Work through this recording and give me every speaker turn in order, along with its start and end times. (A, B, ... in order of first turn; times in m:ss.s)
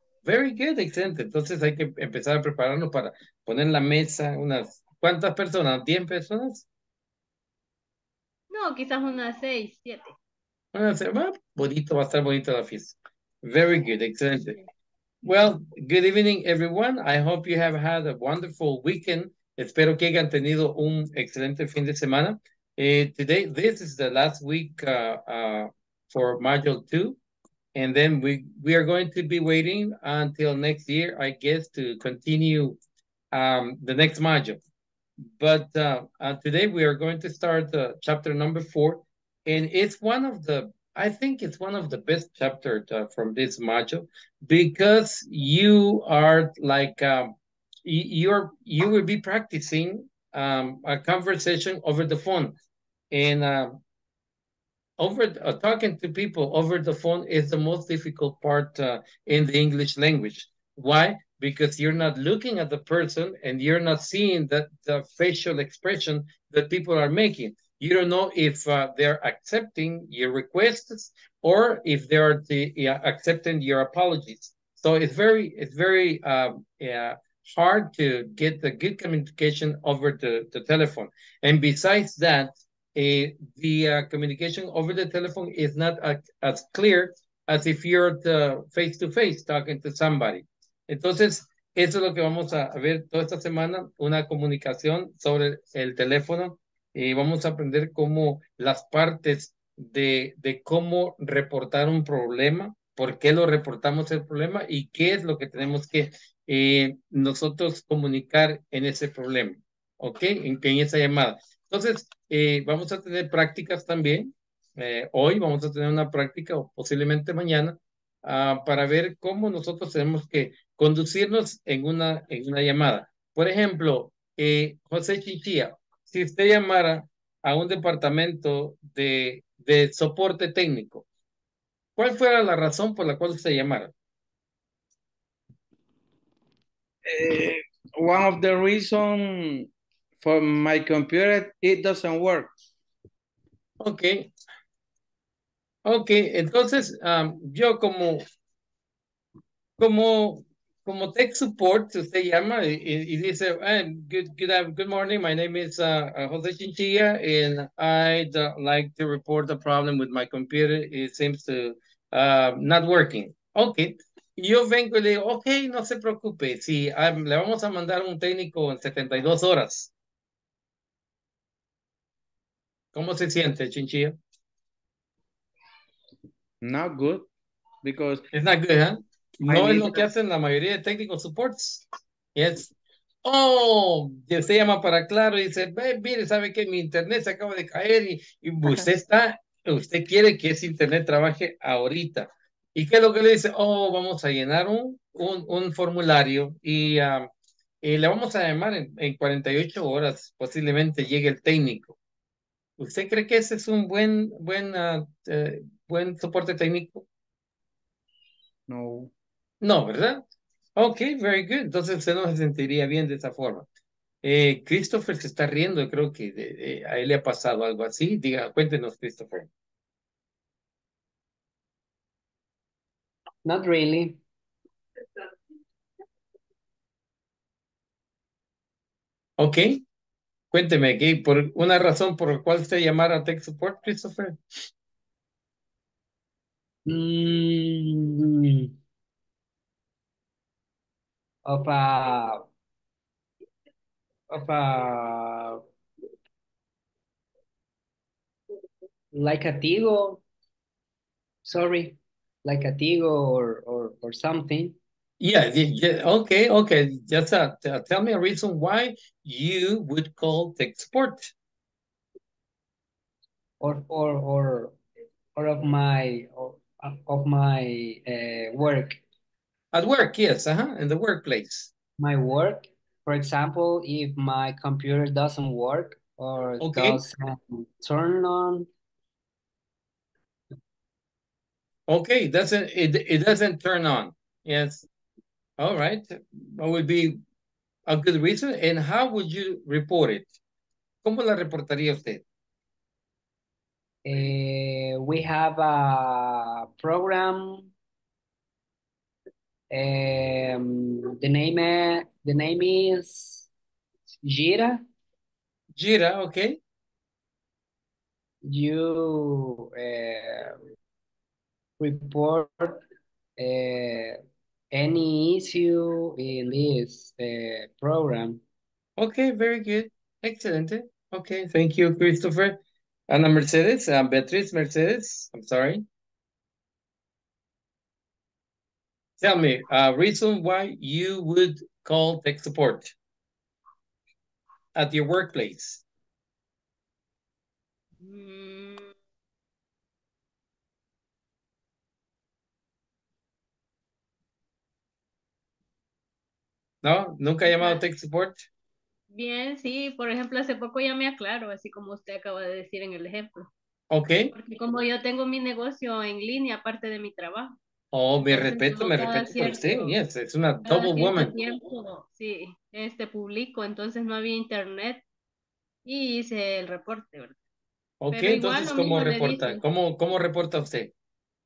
0:00.2-0:06.6 A
0:08.5-0:10.1 B
0:10.7-0:14.6 A
0:15.2-0:27.2 A
0:27.7-0:32.8 A
0:33.3-0:34.6 A
0:35.4-0:47.3 A
0:47.8-0:52.6 A
0:53.1-0:53.8 A
0:55.0-2:11.0 A
2:12.0-2:13.9 A
2:17.0-2:19.7 C
2:20.2-2:22.5 C
2:23.8-2:24.3 A
2:25.9-2:28.2 A
2:29.8-2:49.9 A
2:52.9-2:54.2 A
2:56.6-2:57.3 C
2:57.8-2:58.2 C
2:58.3-3:01.8 A
2:59.5-2:59.8 C
3:02.3-3:02.7 A
3:03.2-3:17.3 A
3:17.8-3:22.0 A
3:22.8-3:27.0 A
3:28.7-3:29.1 C
3:29.6-3:30.2 A
3:30.8-3:33.7 A
3:34.2-3:39.5 A
3:43.4-3:44.2 D
3:49.4-3:49.8 A
3:50.5-3:54.4 A
3:56.8-3:58.7 D
4:01.4-4:02.5 D
4:04.3-4:05.6 D
4:09.1-4:10.2 D
4:11.4-4:14.8 D
4:15.2-4:21.3 A
4:23.6-4:24.8 D
4:25.4-4:29.0 D
4:29.7-4:31.7 A
4:32.0-4:38.7 D
4:36.6-4:37.0 A
4:41.9-4:44.8 A
4:45.6-4:47.2 A
4:47.9-4:50.3 A
4:51.0-4:52.2 A
4:54.0-4:57.7 D
4:59.7-5:03.5 D
5:04.2-5:04.8 D
5:05.8-5:06.6 A
5:08.4-5:10.6 D
5:11.8-5:12.8 D
5:13.4-5:14.2 D
5:14.7-5:18.4 D
5:19.0-5:22.6 A
5:23.1-5:25.8 A
5:29.2-5:32.9 A
5:34.7-5:35.8 A
5:38.0-5:38.9 B
5:46.8-5:48.4 A
5:47.4-5:47.8 B
5:49.1-5:53.5 B
5:53.9-5:54.3 A
5:54.3-5:57.6 B
5:57.9-6:01.3 A
5:58.2-5:59.9 B
6:00.6-6:05.0 B
6:05.8-6:07.4 B
6:08.0-6:10.9 A
6:08.1-6:09.6 B